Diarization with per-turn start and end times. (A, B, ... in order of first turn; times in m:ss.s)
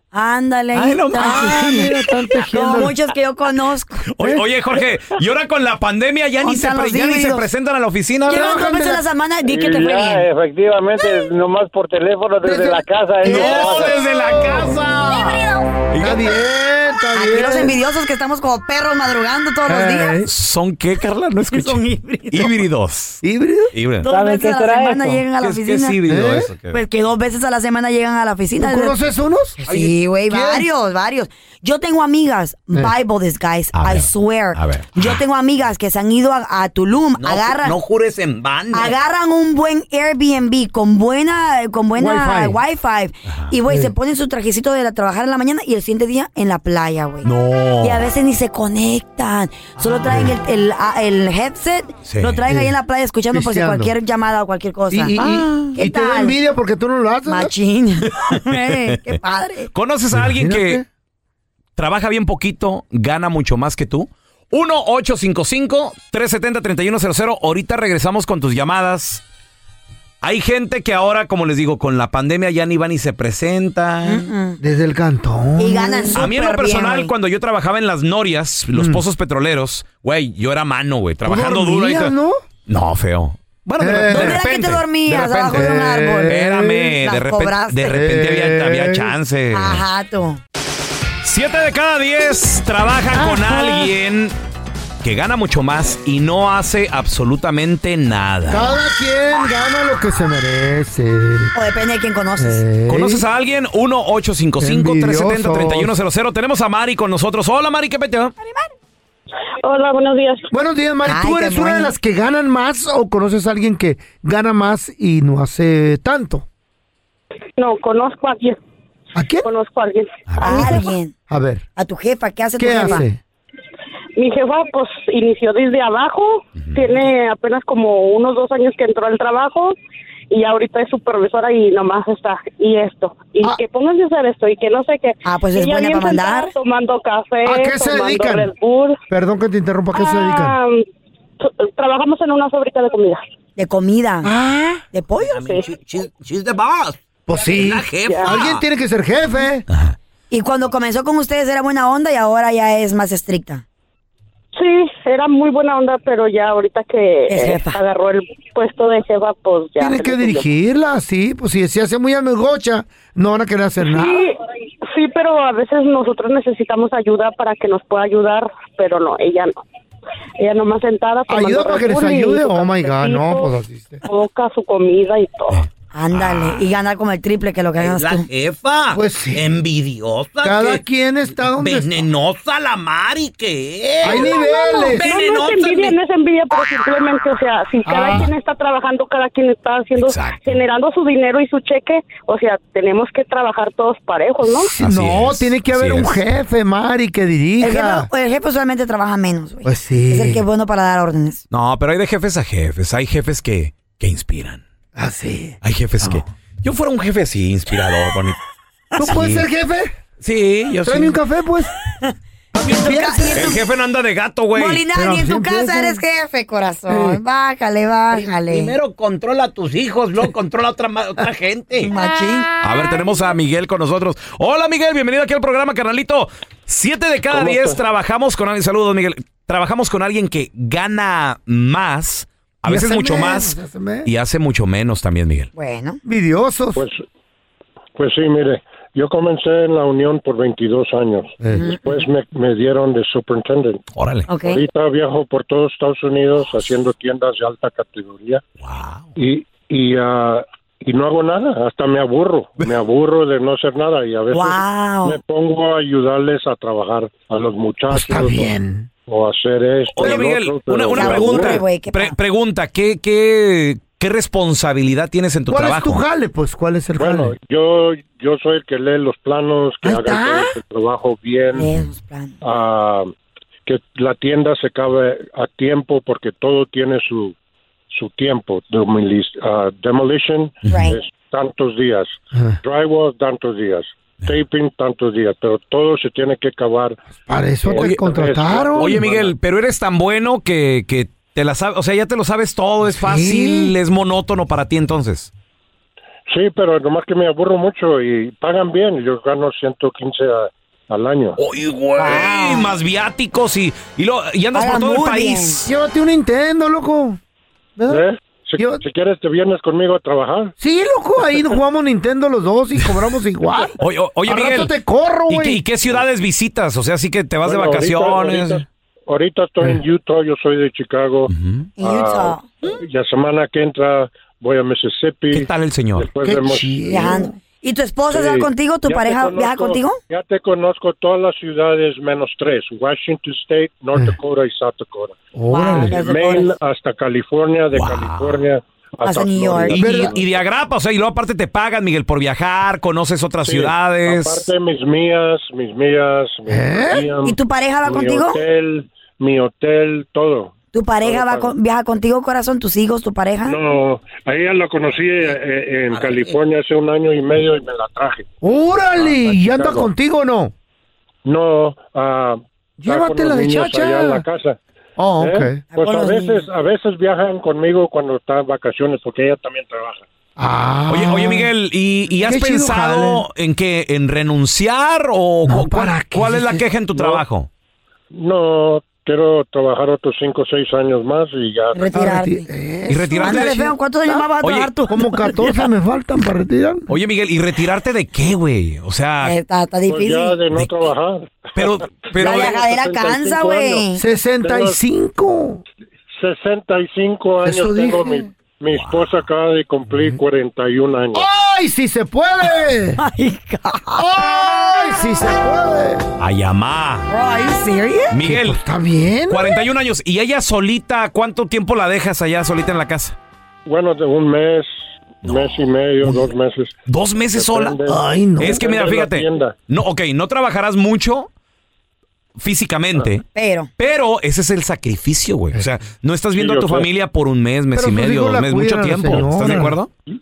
0:00.1-0:01.9 A
0:00.7-0:02.2 B
0:01.2-0:02.9 C
0:02.5-0:04.0 A
0:04.2-0:08.6 B
0:04.2-0:04.4 C
0:06.4-0:07.5 A
0:08.3-0:10.3 A
0:08.3-0:09.0 C
0:09.5-0:14.0 D
0:12.4-0:14.8 C
0:13.2-0:16.2 B
0:15.2-0:15.6 A
0:16.0-0:17.8 C
0:17.2-0:20.2 A
0:19.7-0:20.3 C
0:20.3-0:23.2 B
0:21.5-0:22.5 A
0:23.2-0:23.7 C
0:23.7-0:24.1 B
0:24.0-0:26.0 A
0:24.0-0:25.2 D
0:25.4-0:26.8 B
0:26.1-0:26.5 C
0:26.7-0:29.0 A
0:28.6-0:29.6 C
0:29.6-0:37.8 A
0:29.7-0:29.9 B
0:30.3-0:30.7 C
0:33.7-0:35.2 B
0:37.2-0:39.0 B
0:38.7-0:47.3 A
0:42.0-0:42.6 C
0:47.2-0:48.1 B
0:47.8-0:56.4 A
0:49.8-0:50.2 B
0:52.1-0:52.4 B
0:52.5-0:52.8 C
0:53.3-0:53.9 C
0:54.9-0:57.5 C
0:55.2-0:55.7 B
0:57.3-0:59.7 A
0:58.3-0:59.1 B
0:59.7-1:00.8 B
1:00.1-1:00.8 C
1:01.8-1:09.2 B
1:10.2-1:14.3 B
1:14.0-1:14.6 A
1:14.6-1:16.3 C
1:15.6-1:17.1 A
1:16.2-1:22.1 B
1:18.7-1:19.0 C
1:21.2-1:22.4 C
1:22.7-1:25.7 B
1:23.8-1:24.4 C
1:24.1-1:26.4 A
1:25.5-1:26.9 C
1:26.2-1:29.8 B
1:27.0-1:27.9 A
1:27.9-1:29.1 C
1:29.5-1:30.4 A
1:31.2-1:34.3 B
1:33.2-1:33.8 C
1:35.0-1:38.7 B
1:38.5-1:41.5 C
1:41.6-1:42.6 A
1:42.4-1:43.2 C
1:42.9-1:48.3 B
1:44.6-1:46.0 C
1:49.6-1:50.5 E
1:50.5-1:56.5 C
1:51.1-1:51.9 A
1:57.6-1:58.6 E
1:59.2-1:59.5 C
1:59.4-2:00.3 E
2:00.3-2:00.7 B
2:00.4-2:01.1 A
2:00.5-2:01.7 C
2:01.8-2:03.0 A
2:02.6-2:03.2 C
2:04.2-2:09.8 E
2:06.6-2:06.9 B
2:10.3-2:19.0 E
2:15.2-2:16.5 A
2:17.4-2:18.5 C
2:19.1-2:20.6 C
2:19.9-2:20.8 E
2:21.4-2:23.2 E
2:23.6-2:24.3 A
2:24.2-2:24.8 C
2:24.9-2:25.6 A
2:25.2-2:28.6 B
2:27.3-2:29.7 C
2:28.0-2:28.3 E
2:29.7-2:30.0 B
2:30.3-2:33.6 A
2:34.6-2:40.5 E
2:37.3-2:37.8 A
2:39.8-2:44.3 C
2:43.9-2:49.6 E
2:50.4-2:53.5 E
2:51.3-2:54.0 C
2:54.0-2:55.6 E
2:55.5-2:56.6 B
2:55.9-2:58.3 A
2:57.8-3:00.8 B
2:58.9-2:59.5 C
3:00.4-3:02.1 C
3:01.4-3:06.0 B
3:04.0-3:05.1 C
3:04.1-3:14.7 E
3:07.9-3:08.3 C
3:10.0-3:10.6 B
3:14.4-3:18.1 C
3:14.8-3:16.2 B
3:17.6-3:21.4 A
3:19.6-3:20.4 C
3:21.5-3:24.6 B
3:25.0-3:26.2 C
3:25.6-3:28.4 B
3:29.0-3:29.9 C
3:29.0-3:29.5 B
3:30.2-3:31.2 B
3:30.8-3:31.7 C
3:32.0-3:33.6 A
3:32.5-3:33.6 C
3:33.3-3:34.8 B
3:34.6-3:38.8 A
3:34.9-3:36.0 C
3:36.9-3:37.2 C
3:38.1-3:41.9 B
3:41.8-3:42.5 A
3:42.6-3:55.5 B
3:47.3-3:47.8 F
3:52.7-3:54.1 C
3:55.6-3:56.0 A
3:56.0-3:56.8 C
3:56.8-3:57.0 F
3:58.0-4:03.8 F
4:01.4-4:01.8 C
4:01.6-4:01.8 A
4:04.0-4:04.3 B
4:04.3-4:04.6 A
4:04.4-4:08.4 F
4:08.6-4:09.1 B
4:09.2-4:18.5 F
4:14.3-4:15.2 A
4:17.9-4:18.9 C
4:19.1-4:21.6 F
4:19.9-4:26.0 B
4:20.9-4:22.2 A
4:25.5-4:27.3 C
4:27.0-4:31.7 F
4:29.8-4:30.5 C
4:31.5-4:32.4 A
4:32.4-4:33.1 F
4:33.7-4:37.4 F
4:37.9-4:47.0 F
4:40.6-4:40.9 B
4:40.7-4:41.0 A
4:47.3-4:49.1 C
4:47.6-4:49.4 F
4:47.7-4:48.0 B
4:48.8-4:55.3 B
4:52.8-4:53.8 C
4:56.3-5:01.4 F
5:01.4-5:05.6 B
5:02.0-5:02.8 A
5:04.5-5:05.6 A
5:05.6-5:07.2 C
5:07.8-5:08.0 C
5:07.9-5:10.6 F
5:10.6-5:15.6 C
5:13.8-5:14.7 B
5:15.3-5:18.6 B
5:17.4-5:27.0 F
5:21.3-5:21.7 B
5:21.8-5:22.4 A
5:25.3-5:26.1 B
5:26.2-5:27.3 C
5:26.9-5:30.0 A
5:28.1-5:35.2 F
5:35.4-5:36.0 C
5:35.5-5:36.5 A
5:35.7-5:40.4 F
5:37.7-5:38.5 B
5:39.0-5:39.8 A
5:39.7-5:44.5 B
5:39.7-5:40.2 C
5:43.4-5:51.6 F
5:46.5-5:47.1 C
5:47.2-5:48.4 A
5:50.7-5:53.6 A
5:53.4-5:58.3 F
5:55.9-5:56.4 B
5:58.4-6:00.5 C
5:58.9-5:59.9 F
6:01.2-6:04.6 F
6:02.8-6:04.2 C
6:05.0-6:05.6 C
6:05.2-6:10.1 F
6:05.7-6:06.5 A
6:10.4-6:11.5 C
6:10.9-6:17.5 B
6:12.1-6:13.2 C
6:15.5-6:16.6 C
6:17.0-6:17.2 F
6:18.1-6:21.9 F
6:21.7-6:22.5 A
6:21.9-6:24.3 C
6:22.9-6:23.7 B
6:23.2-6:25.5 A
6:24.4-6:24.7 B
6:24.9-6:26.9 C
6:26.9-6:29.4 B
6:29.2-6:30.4 A
6:29.9-6:33.9 F
6:30.6-6:30.9 B
6:31.6-6:32.6 B
6:32.2-6:34.0 A
6:34.0-6:35.6 C
6:34.4-6:34.8 F
6:36.2-6:41.3 F
6:37.4-6:38.3 C
6:38.7-6:39.2 B
6:41.2-6:43.0 C
6:43.0-6:44.0 A
6:43.9-6:46.1 C
6:46.2-6:47.1 B
6:47.1-6:48.2 A
6:48.1-6:48.6 B
6:48.2-6:49.5 C
6:49.3-6:53.2 B
6:53.7-6:54.7 F
6:55.2-6:56.7 F
6:55.3-6:55.6 B
6:56.9-6:57.8 B
6:57.3-6:59.6 F
6:57.9-6:58.6 C
6:58.4-7:01.3 B
7:02.4-7:03.3 B
7:03.3-7:03.7 A
7:03.8-7:09.9 B
7:06.3-7:06.9 F
7:07.8-7:09.8 C
7:09.1-7:09.6 F